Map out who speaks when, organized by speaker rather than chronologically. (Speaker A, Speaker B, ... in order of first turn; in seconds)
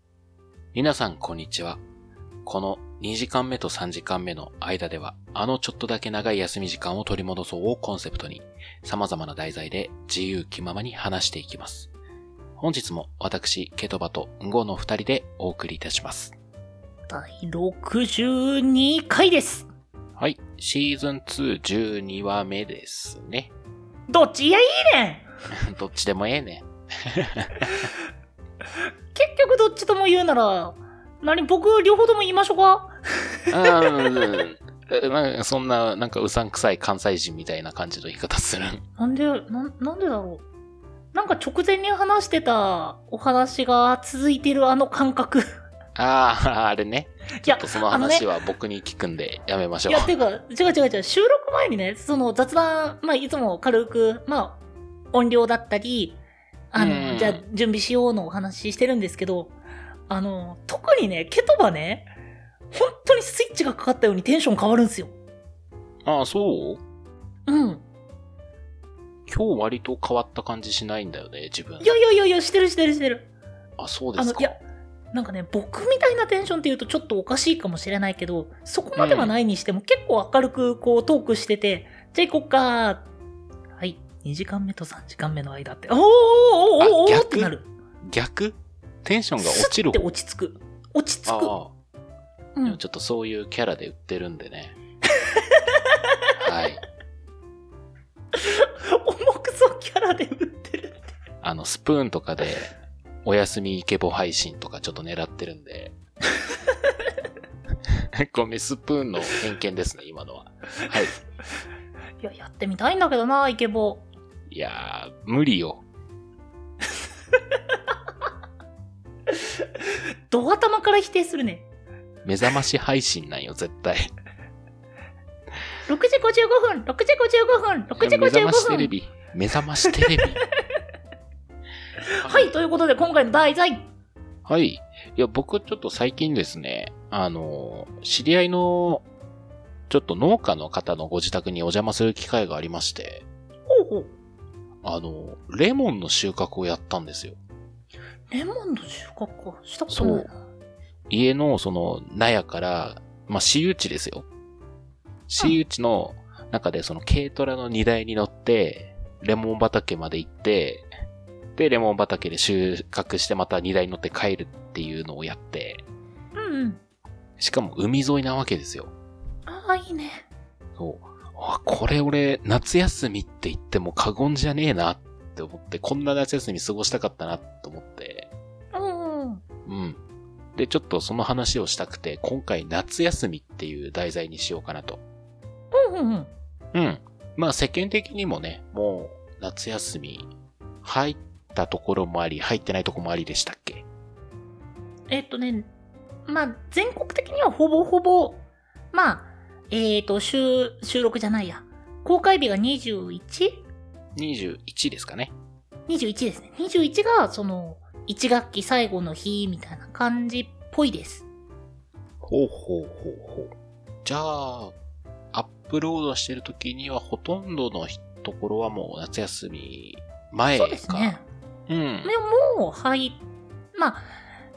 Speaker A: 0.7-1.8, 2.5-11.9, 12.6-16.3, 20.2-23.5, 25.5-27.7, 33.5-38.8, 46.0-50.1, 56.8-57.4, 66.1-66.8, 69.3-72.0, 73.8-74.6, 79.0-79.3, 86.8-90.1, 91.3-91.7, 92.7-94.8, 96.4-96.8, 101.4-102.7, 103.2-106.0, 108.2-111.2, 114.5-115.8, 122.2-124.1, 128.0-130.4, 132.2-132.5, 134.5-139.1, 139.9-143.3, 144.8-147.4, 149.9-150.3, 151.1-154.3, 155.3-160.9, 161.6-165.8, 167.4-168.9, 170.8-178.3, 179.7-180.0, 180.6-185.0, 186.7-190.3, 190.8-193.9, 204.2-205.3, 212.2-213.5, 214.1-214.7, 215.3-222.1
Speaker B: 17.1-19.7, 24.1-25.3, 29.1-32.9, 39.0-40.5, 41.1-45.5, 47.4-48.3, 49.9-59.6, 60.1-62.1, 62.7-65.2, 67.5-67.9, 71.8-73.3, 74.2-74.6, 75.1-83.1, 83.8-87.7, 89.4-91.6, 92.6-92.8, 98.3-101.1, 112.2-114.1, 120.3-121.7, 125.9-128.9, 132.2-133.9, 143.7-144.1, 148.3-150.4, 166.3-166.8, 169.5-170.3, 178.7-179.4, 185.7-186.3, 195.1-195.7, 196.3-203.7, 205.9-211.3, 220.5-221.2, 222.0-223.2, 223.8-224.1